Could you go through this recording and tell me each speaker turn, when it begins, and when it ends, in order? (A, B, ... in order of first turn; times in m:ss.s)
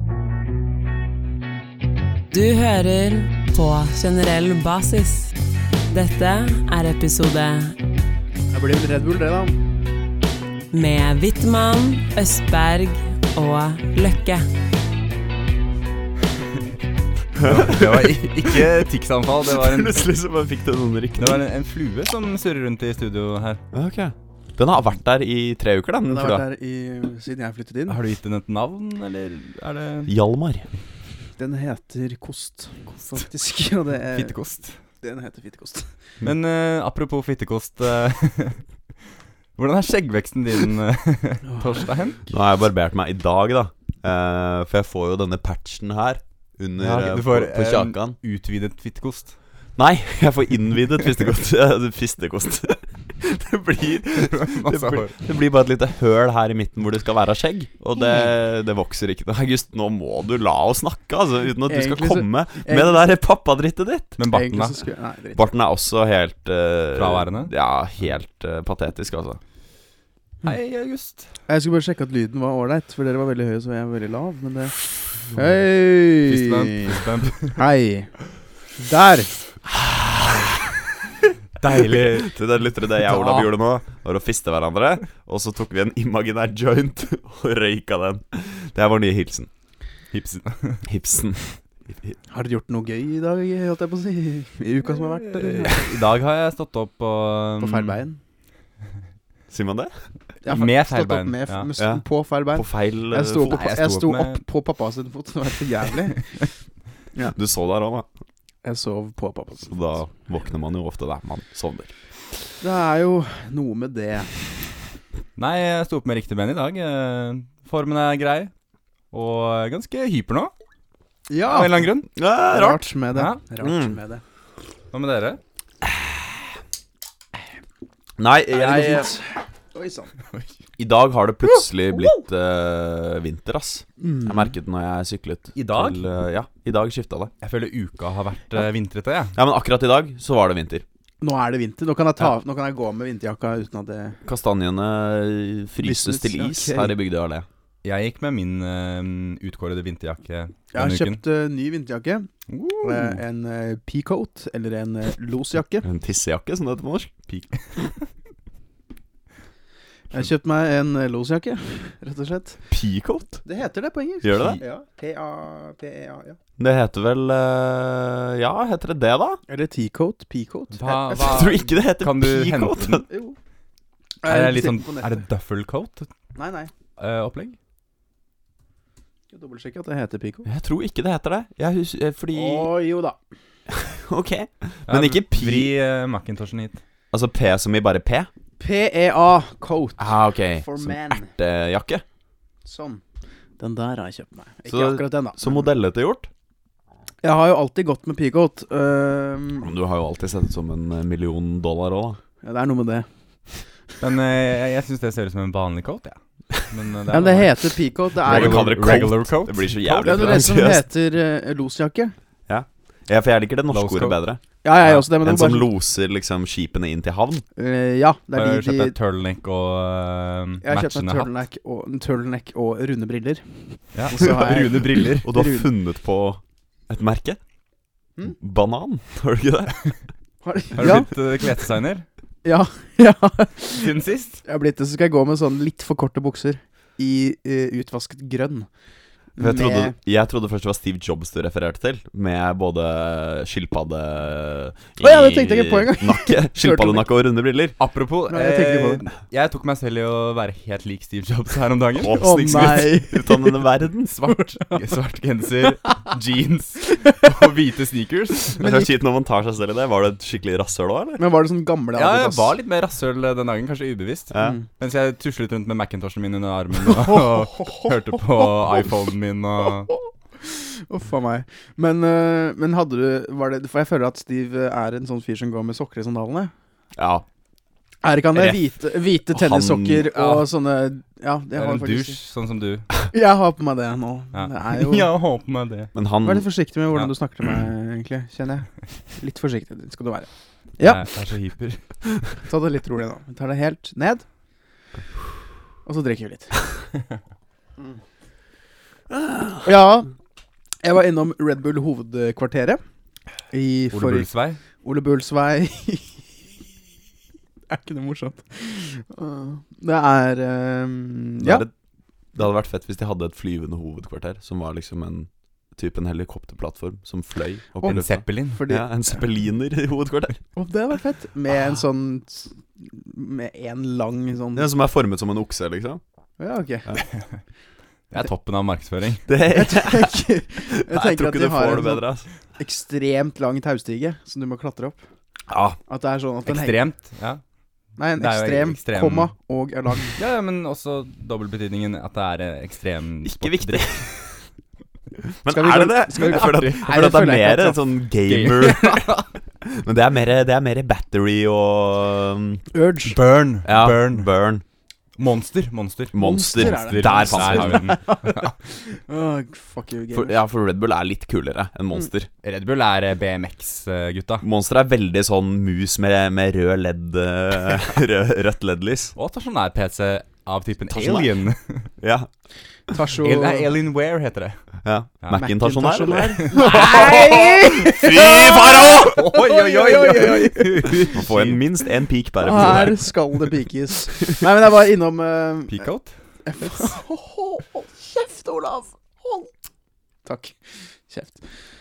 0:02.3-0:05.4 A
0:05.9-0:07.8 A
0:08.5-0:09.6 B
0:10.7-0:14.5 A
0:17.4-0:18.6 C
0:17.4-0:20.1 D
0:19.5-0:21.4 C
0:21.2-0:23.6 D
0:23.7-0:26.4 C
0:26.1-0:28.0 B
0:27.9-0:30.1 D
0:30.1-0:30.7 C
0:31.4-0:34.4 B
0:34.1-0:34.8 D
0:35.0-0:35.9 B
0:36.2-0:38.6 D
0:39.6-0:42.3 D
0:41.5-0:41.9 B
0:42.3-0:48.2 C
0:46.8-0:49.4 D
0:49.8-1:04.2 C
0:54.2-0:55.2 D
1:01.7-1:03.1 B
1:04.2-1:04.8 D
1:04.3-1:05.4 B
1:05.3-1:09.4 C
1:07.0-1:07.5 D
1:10.4-1:11.3 D
1:11.5-1:17.0 B
1:16.2-1:17.6 D
1:17.5-1:18.2 B
1:18.8-1:19.4 B
1:19.7-1:20.7 C
1:21.6-1:22.4 D
1:21.9-1:29.5 C
1:23.0-1:23.5 D
1:30.1-1:30.9 D
1:30.9-1:32.2 C
1:32.3-1:36.0 B
1:35.0-1:38.0 D
1:37.6-1:38.2 B
1:39.5-1:39.9 C
1:40.4-1:46.4 B
1:40.5-1:41.7 D
1:41.8-1:43.7 C
1:43.5-1:44.4 D
1:47.3-1:48.1 C
1:48.6-1:49.8 B
1:49.7-1:51.9 C
1:52.6-1:54.4 B
1:55.4-1:58.5 D
1:59.1-2:00.5 D
2:01.3-2:01.8 B
2:01.4-2:02.1 D
2:02.2-2:02.8 C
2:02.5-2:04.2 B
2:03.1-2:03.4 D
2:03.6-2:04.0 C
2:04.9-2:05.4 D
2:08.2-2:09.1 C
2:08.5-2:10.1 B
2:10.8-2:17.3 C
2:14.0-2:14.5 B
2:15.6-2:16.0 D
2:17.4-2:19.4 D
2:19.4-2:20.8 C
2:21.2-2:24.2 B
2:24.3-2:27.5 C
2:25.8-2:26.9 B
2:27.8-2:31.2 D
2:30.7-2:32.3 B
2:32.5-2:33.2 D
2:32.8-2:35.8 B
2:35.8-2:37.8 C
2:40.1-2:42.6 B
2:42.7-2:43.4 C
2:43.4-2:46.4 B
2:44.2-2:44.6 C
2:46.6-2:49.4 C
2:49.5-2:51.5 B
2:50.7-2:53.0 D
2:51.1-2:53.1 C
2:53.1-2:53.4 B
2:54.2-2:55.2 B
2:54.2-2:56.1 D
2:56.4-2:56.7 B
2:57.0-2:57.6 D
2:59.3-3:00.5 B
3:00.4-3:02.7 C
3:02.3-3:03.2 B
3:03.7-3:05.7 C
3:04.9-3:06.8 D
3:07.1-3:08.3 C
3:08.6-3:11.3 B
3:10.0-3:12.0 C
3:12.6-3:13.0 B
3:13.6-3:15.5 B
3:14.7-3:16.3 C
3:17.2-3:19.7 B
3:19.6-3:22.2 C
3:22.4-3:23.1 B
3:24.0-3:27.6 D
3:27.1-3:29.0 B
3:28.2-3:30.7 D
3:28.2-3:30.8 C
3:30.0-3:32.1 B
3:32.5-3:34.4 C
3:33.7-3:34.2 D
3:34.6-3:35.7 B
3:35.2-3:37.4 C
3:37.6-3:39.0 B
3:38.3-3:41.3 D
3:40.6-3:45.7 B
3:43.9-3:45.3 D
3:44.2-3:44.6 C
3:45.2-3:47.4 C
3:48.4-3:49.8 C
3:50.4-3:51.1 B
3:50.8-3:52.1 D
3:52.4-3:58.7 B
3:53.7-3:54.4 D
3:59.4-3:59.9 B
3:59.4-4:07.8 C
4:05.0-4:07.1 B
4:07.8-4:12.2 D
4:08.3-4:09.1 B
4:12.0-4:14.2 C
4:12.1-4:13.6 B
4:14.1-4:18.6 D
4:17.0-4:17.3 B
4:18.6-4:18.9 B
4:18.6-4:21.2 C
4:21.2-4:22.5 B
4:22.0-4:29.9 D
4:24.3-4:24.6 C
4:27.0-4:28.5 B
4:30.4-4:36.5 B
4:37.0-4:37.2 C
4:38.0-4:42.2 B
4:38.3-4:38.6 C
4:39.3-4:40.1 C
4:40.1-4:40.4 D
4:41.6-4:42.9 D
4:43.1-4:45.1 B
4:44.3-4:45.9 D
4:45.9-4:46.5 C
4:46.2-4:51.0 B
4:50.8-4:51.8 D
4:52.4-4:54.2 B
4:55.8-4:56.8 B
4:59.1-4:59.7 C
4:59.6-5:00.1 B
5:00.8-5:02.8 B
5:03.5-5:06.2 B
5:03.9-5:04.6 D
5:07.7-5:11.6 B
5:11.4-5:11.7 C
5:12.4-5:20.4 C
5:17.8-5:18.6 D
5:18.5-5:19.2 B
5:20.5-5:24.7 B
5:24.6-5:26.0 C
5:26.4-5:26.9 B
5:27.1-5:27.4 D
5:28.1-5:29.3 D
5:29.3-5:32.3 C
5:29.5-5:35.0 B
5:35.5-5:35.8 C
5:35.9-5:36.8 B
5:36.5-5:37.4 D
5:38.0-5:40.2 B
5:38.2-5:39.3 D
5:40.2-5:44.0 D
5:43.2-5:44.2 C
5:45.4-5:52.6 C
5:45.5-5:47.8 B
5:46.2-5:46.8 D
5:48.3-5:49.2 D
5:52.7-5:53.2 B
5:53.1-5:54.3 D
5:53.6-5:54.6 C
5:55.2-5:58.5 D
5:56.1-5:58.0 C
5:56.2-6:00.4 B
6:00.1-6:02.3 C
6:02.4-6:04.5 D
6:04.4-6:09.2 C
6:09.2-6:11.9 D
6:10.9-6:11.3 C
6:12.0-6:12.3 C
6:12.9-6:13.7 B
6:13.2-6:14.6 D
6:14.8-6:19.3 C
6:15.2-6:15.5 D
6:15.3-6:21.1 B
6:16.4-6:18.3 D
6:18.9-6:21.6 D
6:21.1-6:23.0 C
6:22.4-6:25.8 B
6:22.6-6:22.9 D
6:25.7-6:26.1 D
6:26.5-6:29.5 B
6:30.2-6:31.4 B